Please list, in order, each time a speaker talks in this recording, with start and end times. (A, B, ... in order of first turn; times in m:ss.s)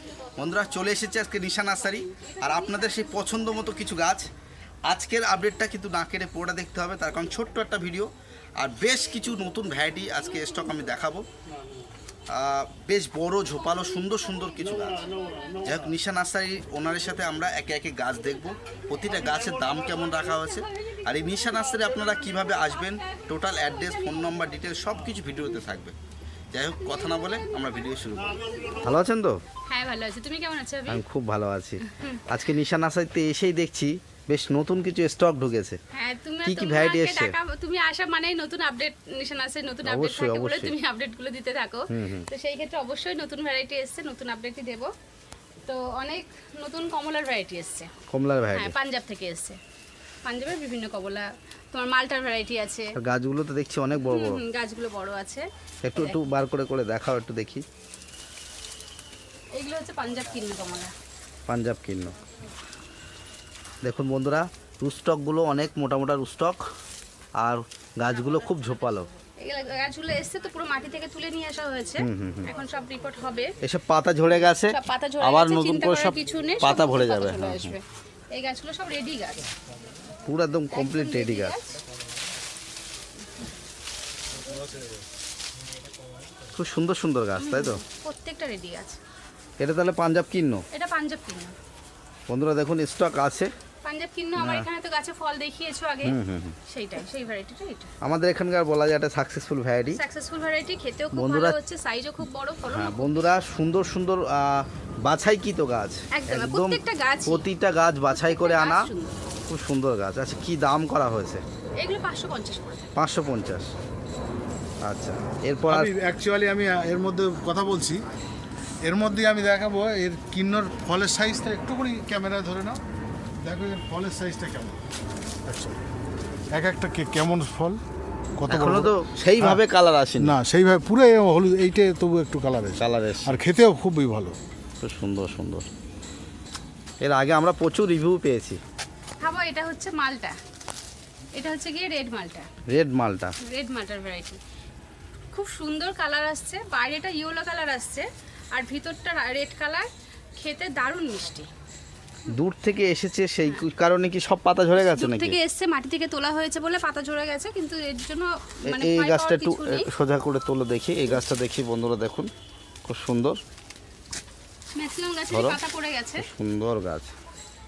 0:00.4-0:04.3 A
0:02.1-0:03.5 B
0:04.8-0:11.3 A
0:12.3-0:15.1 A
0:13.5-0:15.7 B
0:15.6-0:25.9 A
0:19.1-0:24.4 B
0:26.5-0:29.4 A
0:26.8-0:29.0 B
0:29.7-0:31.0 B
0:30.9-0:35.8 A
0:31.8-0:32.2 B
0:35.9-0:44.9 B
0:36.4-0:37.4 A
0:39.8-0:40.7 A
0:41.9-0:42.2 A
0:45.6-0:47.9 B
0:48.1-0:48.7 A
0:48.5-0:49.6 B
0:50.2-0:53.0 B
0:53.0-0:54.4 A
0:54.0-0:56.2 B
0:55.8-0:57.6 A
0:59.5-1:00.9 B
1:01.5-1:02.1 A
1:03.8-1:06.6 A
1:07.4-1:09.1 A
1:09.4-1:13.5 B
1:12.0-1:12.5 A
1:13.6-1:17.8 A
1:14.7-1:17.8 B
1:18.3-1:19.5 B
1:20.2-1:21.6 A
1:20.7-1:21.8 B
1:26.5-1:27.8 A
1:27.4-1:29.0 B
1:29.6-1:30.6 A
1:30.7-1:31.5 B
1:32.3-1:33.5 A
1:33.8-1:37.9 B
1:34.4-1:34.7 A
1:36.0-1:36.6 A
1:38.0-1:40.0 A
1:39.9-1:43.3 B
1:41.1-1:41.6 A
1:42.7-1:48.9 A
1:46.1-1:47.4 B
1:48.1-1:49.2 B
1:49.5-1:51.4 A
1:51.8-1:52.9 B
1:53.0-1:53.7 A
1:54.8-1:55.9 A
1:55.7-1:58.0 C
1:58.8-2:02.8 C
2:03.4-2:04.8 C
2:05.4-2:05.8 C
2:06.5-2:07.8 C
2:08.4-2:09.6 C
2:08.5-2:10.4 A
2:10.2-2:14.4 C
2:12.8-2:13.4 A
2:14.8-2:15.7 A
2:17.0-2:18.6 A
2:19.2-2:20.4 B
2:21.3-2:22.5 B
2:22.7-2:23.4 A
2:23.4-2:24.4 B
2:25.3-2:31.5 B
2:32.3-2:35.4 A
2:34.8-2:39.9 B
2:38.7-2:42.3 A
2:42.8-2:43.4 A
2:44.7-2:46.3 B
2:45.3-2:45.6 A
2:46.2-2:47.1 A